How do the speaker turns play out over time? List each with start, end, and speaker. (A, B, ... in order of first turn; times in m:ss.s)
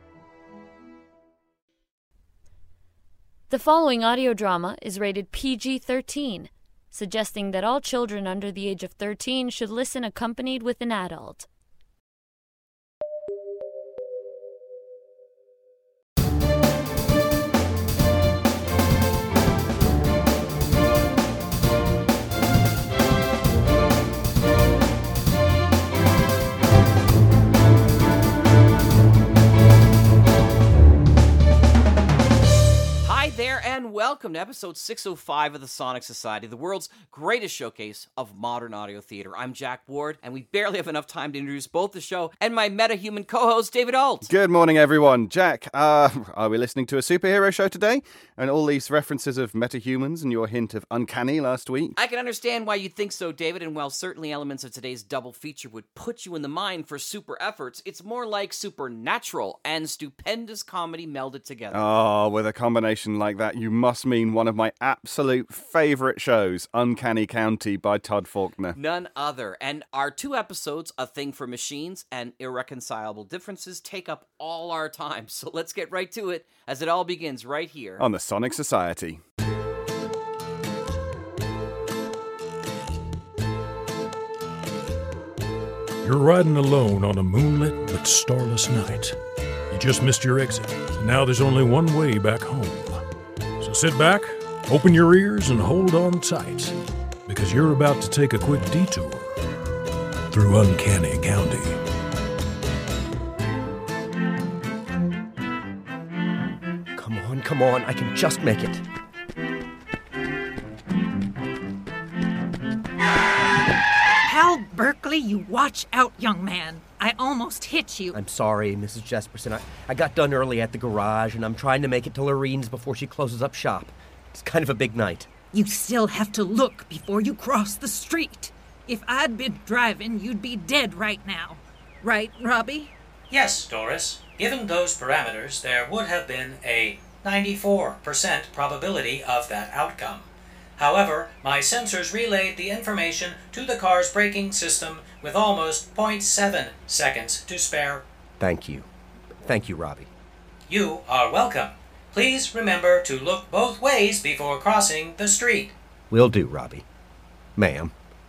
0:03.5-0:11.5 A
0:33.0-0:44.3 B
0:44.3-0:52.0 C
0:52.0-1:01.8 B
1:01.7-1:08.8 C
1:08.7-1:18.0 B
1:18.0-1:19.2 C
1:26.0-1:29.2 D
1:29.7-1:33.0 D
1:33.6-1:36.8 D
1:37.3-1:39.4 D
1:40.3-1:41.8 D
1:47.0-1:48.8 E
1:54.3-1:58.1 F
1:58.1-2:05.3 E
2:05.6-2:12.9 F
2:13.3-2:28.0 G
2:28.4-2:28.9 E
2:29.4-2:30.1 E
2:30.7-2:35.7 G
2:36.1-2:36.8 E
2:37.6-2:37.9 E